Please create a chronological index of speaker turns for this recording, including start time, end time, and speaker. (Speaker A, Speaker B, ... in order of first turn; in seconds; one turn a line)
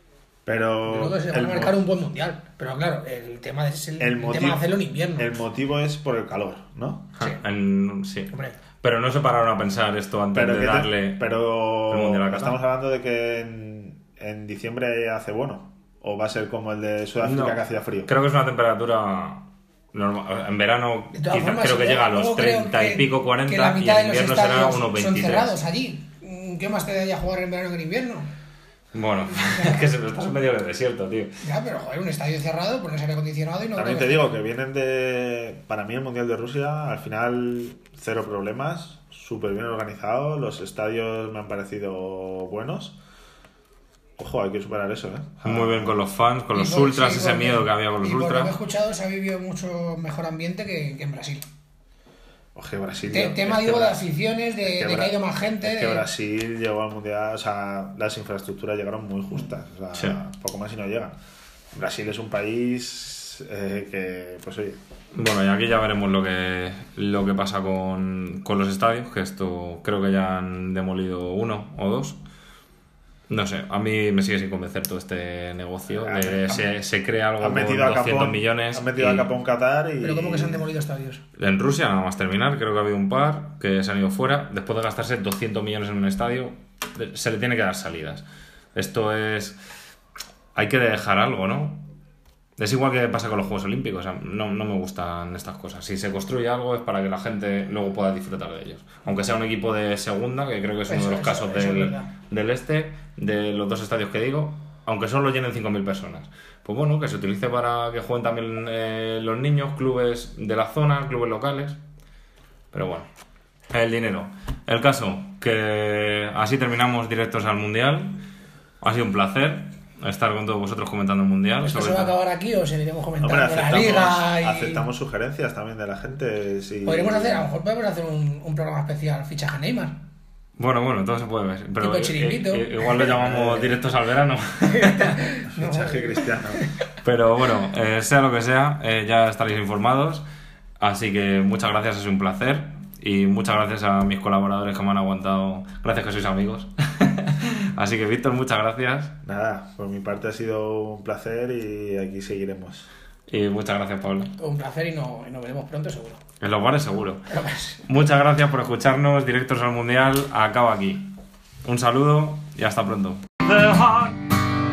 Speaker A: 0.5-1.8
Speaker B: 0.8-5.3
Speaker A: 4.0-7.1
Speaker C: 7.2-11.3
Speaker A: 10.3-18.1
Speaker C: 11.8-12.6
Speaker C: 17.2-25.5
Speaker B: 21.1-28.3
Speaker C: 28.9-31.4
Speaker B: 29.4-29.8
Speaker B: 31.4-34.3
Speaker A: 33.7-43.0
Speaker A: 44.2-46.0
Speaker C: 45.4-48.5
Speaker B: 46.5-51.4
Speaker A: 52.5-54.0
Speaker B: 53.1-56.0
Speaker A: 54.6-61.1
Speaker A: 61.7-64.8
Speaker C: 65.1-72.2
Speaker C: 73.3-79.3
Speaker A: 76.0-76.7
Speaker A: 77.4-80.6
Speaker B: 80.0-81.2
Speaker C: 81.4-89.6
Speaker C: 90.5-91.8
Speaker C: 92.6-111.8
Speaker B: 100.9-102.1
Speaker C: 112.7-113.1
Speaker C: 113.7-118.2
Speaker C: 118.8-122.2
Speaker B: 121.6-124.8
Speaker A: 123.2-127.5
Speaker B: 126.8-129.9
Speaker C: 130.6-135.2
Speaker B: 131.8-132.8
Speaker A: 133.0-133.8
Speaker B: 134.7-136.7
Speaker A: 135.5-136.7
Speaker C: 137.0-140.2
Speaker C: 140.8-149.1
Speaker A: 149.2-152.9
Speaker C: 153.3-154.3
Speaker B: 154.4-156.2
Speaker C: 156.4-157.3
Speaker B: 157.3-157.8
Speaker C: 157.8-161.1
Speaker C: 161.6-164.4